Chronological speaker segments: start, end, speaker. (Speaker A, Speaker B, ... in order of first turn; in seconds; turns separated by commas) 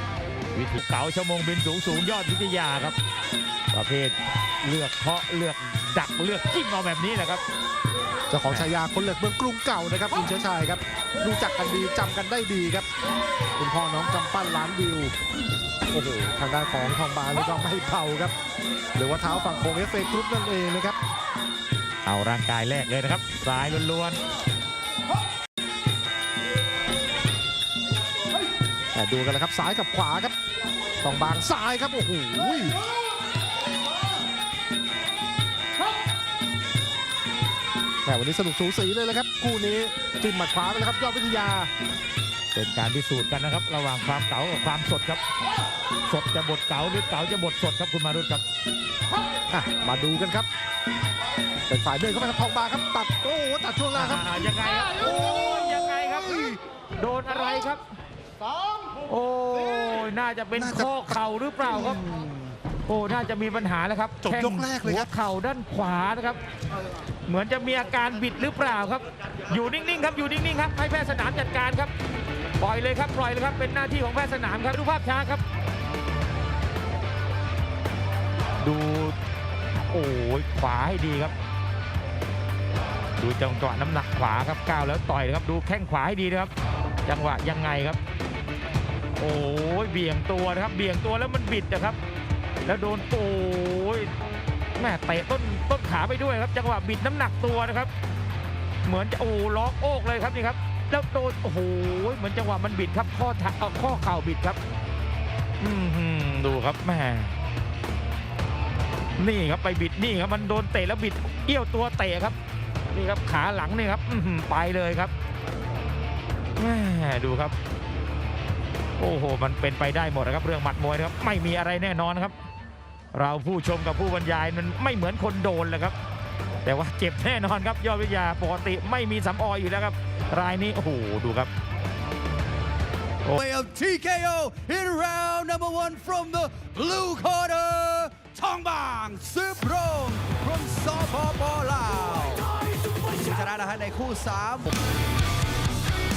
Speaker A: 0.5-3.0, Speaker A: 3.7-7.4, Speaker B: 8.3-12.9, Speaker B: 13.6-15.1, Speaker B: 15.9-18.3, Speaker B: 18.9-21.0, Speaker A: 22.0-24.2, Speaker B: 28.9-30.3, Speaker B: 31.0-32.8, Speaker B: 38.0-41.7, Speaker A: 42.5-45.2, Speaker A: 46.0-48.4, Speaker B: 49.5-50.5, Speaker B: 51.7-54.5, Speaker A: 53.9-57.8, Speaker A: 59.0-62.0, Speaker B: 60.5-62.5, Speaker A: 62.8-66.4, Speaker B: 64.2-65.1, Speaker A: 67.2-71.9, Speaker A: 72.6-75.4, Speaker A: 78.6-79.2, Speaker A: 79.9-81.3, Speaker A: 83.2-86.5, Speaker A: 87.0-88.0, Speaker A: 89.2-92.0, Speaker A: 92.6-94.1, Speaker A: 94.8-97.9, Speaker A: 98.8-104.6, Speaker A: 105.6-107.3, Speaker A: 109.2-112.3, Speaker A: 112.9-115.1, Speaker A: 116.6-117.5, Speaker A: 119.0-122.3, Speaker A: 123.1-125.9, Speaker A: 126.6-131.5, Speaker C: 133.3-144.7